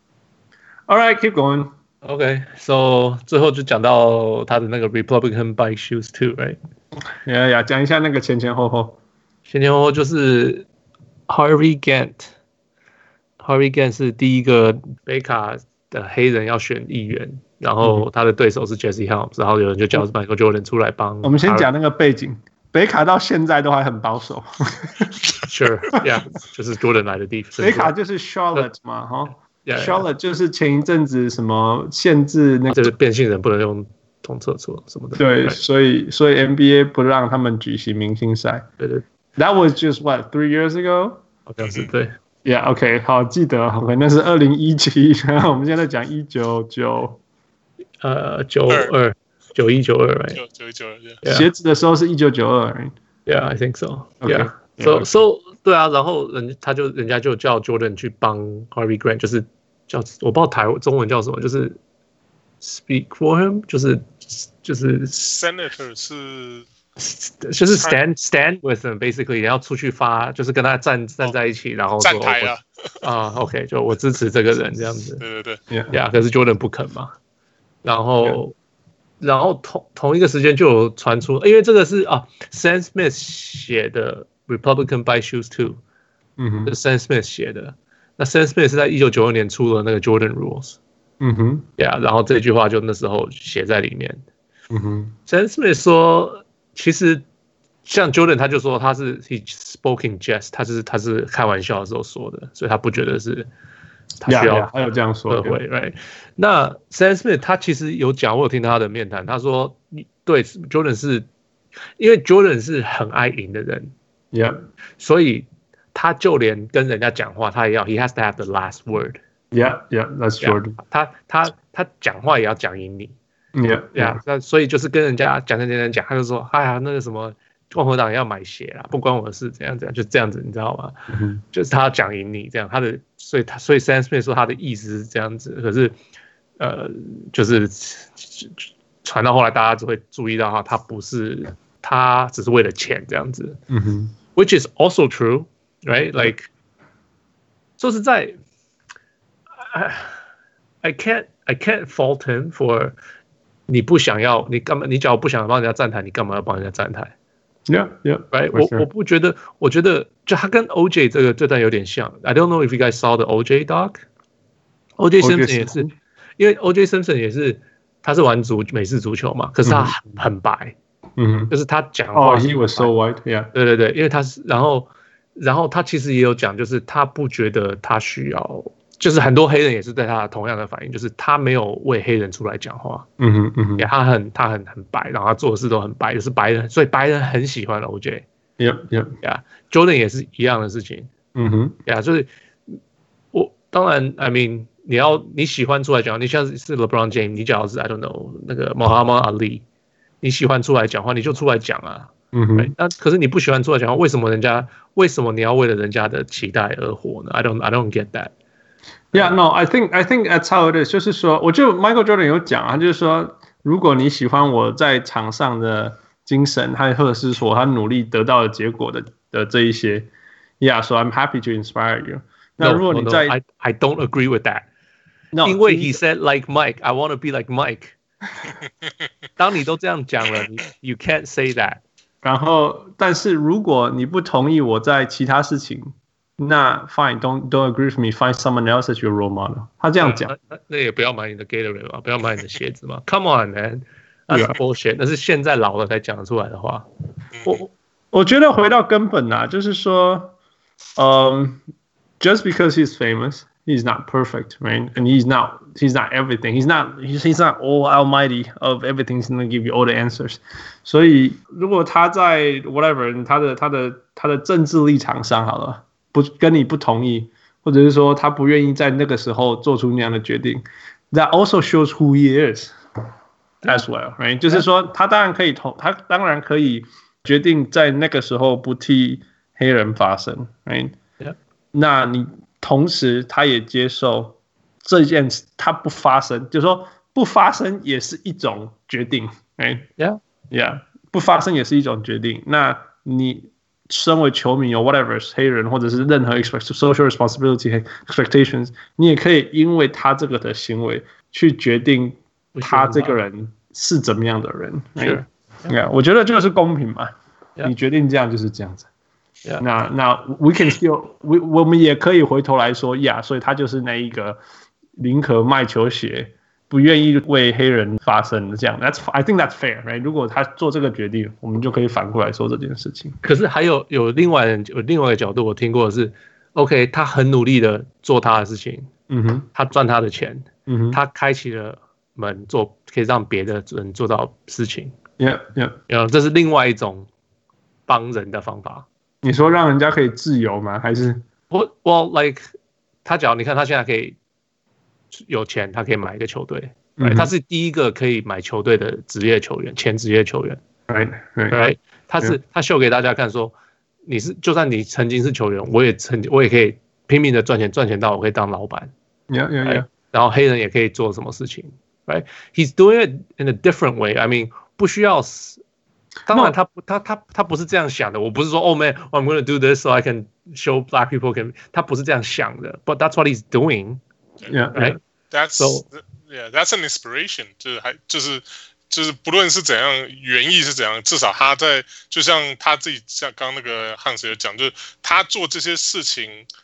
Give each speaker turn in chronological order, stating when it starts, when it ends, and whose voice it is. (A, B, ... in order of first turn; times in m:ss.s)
0:00.9-0:01.7 A
0:02.0-0:06.6 B
0:07.2-0:09.0 A
0:09.5-0:10.7 B
0:11.3-0:12.3 B
0:13.4-0:21.7 B
0:17.8-0:18.1 A
0:21.2-0:25.1 A
0:25.5-0:27.9 B
0:27.6-0:32.9 A
0:29.6-0:30.0 B
0:32.7-0:35.6 B
0:35.2-0:38.6 A
0:38.8-0:39.0 B
0:39.4-0:41.2 A
0:41.5-0:42.1 B
0:41.6-0:41.9 C
0:42.4-0:47.2 A
0:48.0-0:50.4 B
0:50.3-0:51.2 C
0:51.2-0:52.9 A
0:53.2-1:01.8 B
0:54.2-0:55.1 A
1:02.6-1:05.2 B
1:05.1-1:06.7 C
1:07.0-1:15.2 B
1:07.7-1:08.0 C
1:12.0-1:12.6 C
1:15.2-1:15.6 C
1:15.7-1:15.9 A
1:15.9-1:17.1 B
1:17.8-1:18.5 B
1:19.2-1:25.8 B
1:26.4-1:26.7 A
1:26.6-1:30.8 B
1:31.2-1:31.7 A
1:31.8-1:34.2 B
1:34.7-1:35.1 A
1:35.3-1:37.2 B
1:37.8-1:43.5 B
1:44.2-1:44.7 B
1:44.2-1:45.6 A
1:45.3-1:51.3 B
1:52.0-1:53.9 B
1:54.3-1:54.6 A
1:55.0-1:59.2 B
1:59.5-2:00.8 A
2:00.4-2:03.2 B
2:03.5-2:04.2 A
2:03.9-2:10.9 B
2:11.1-2:11.4 A
2:11.5-2:16.0 B
2:16.6-2:23.6 B
2:23.7-2:24.1 A
2:24.3-2:26.5 B
2:27.8-2:28.3 B
2:29.6-2:30.2 B
2:30.8-2:33.0 B
2:33.7-2:37.1 B
2:37.7-2:38.8 A
2:38.3-2:44.0 B
2:45.0-2:50.8 B
2:45.2-2:45.9 A
2:49.6-2:50.2 A
2:51.2-2:51.5 A
2:51.5-2:52.9 B
2:52.1-2:53.5 A
2:53.5-3:03.0 B
3:03.2-3:03.9 A
3:03.8-3:08.2 B
3:08.6-3:09.1 A
3:09.2-3:11.1 B
3:11.3-3:11.8 A
3:11.8-3:12.8 B
3:13.3-3:19.6 B
3:20.2-3:28.3 B
3:22.3-3:22.7 A
3:29.1-3:43.3 A
3:42.6-3:44.7 B
3:45.3-3:46.0 A
3:45.4-3:47.9 B
3:49.4-3:51.8 B
3:52.2-4:00.3 A
4:00.0-4:06.8 B
4:04.3-4:04.6 A
4:07.3-4:07.6 C
4:07.4-4:10.3 A
4:11.0-4:11.6 A
4:12.2-4:32.7 A
4:33.6-4:41.0 A
4:41.7-4:49.9 A
4:50.5-5:08.9 A
5:02.5-5:03.2 B
5:05.0-5:05.7 B
5:09.6-5:14.4 A
5:15.0-5:23.2 A
5:23.2-5:28.9 B
5:29.1-5:29.5 A
5:29.5-5:34.9 B
5:30.7-5:31.0 A
5:35.2-5:35.8 A
5:35.9-5:37.1 B
5:37.9-5:38.9 B
5:39.2-5:41.2 A
5:41.5-5:42.5 B
5:43.0-5:44.2 B
5:45.1-5:50.6 B
5:47.0-5:47.3 A
5:50.9-5:51.6 A
5:51.5-5:53.5 B
5:54.0-5:58.9 B
5:59.3-5:59.9 A
5:59.6-6:05.6 B
6:06.3-6:06.5 A
6:06.3-6:14.0 B
6:14.4-6:15.0 A
6:14.7-6:15.0 B
6:15.3-6:26.4 C
6:15.6-6:15.8 B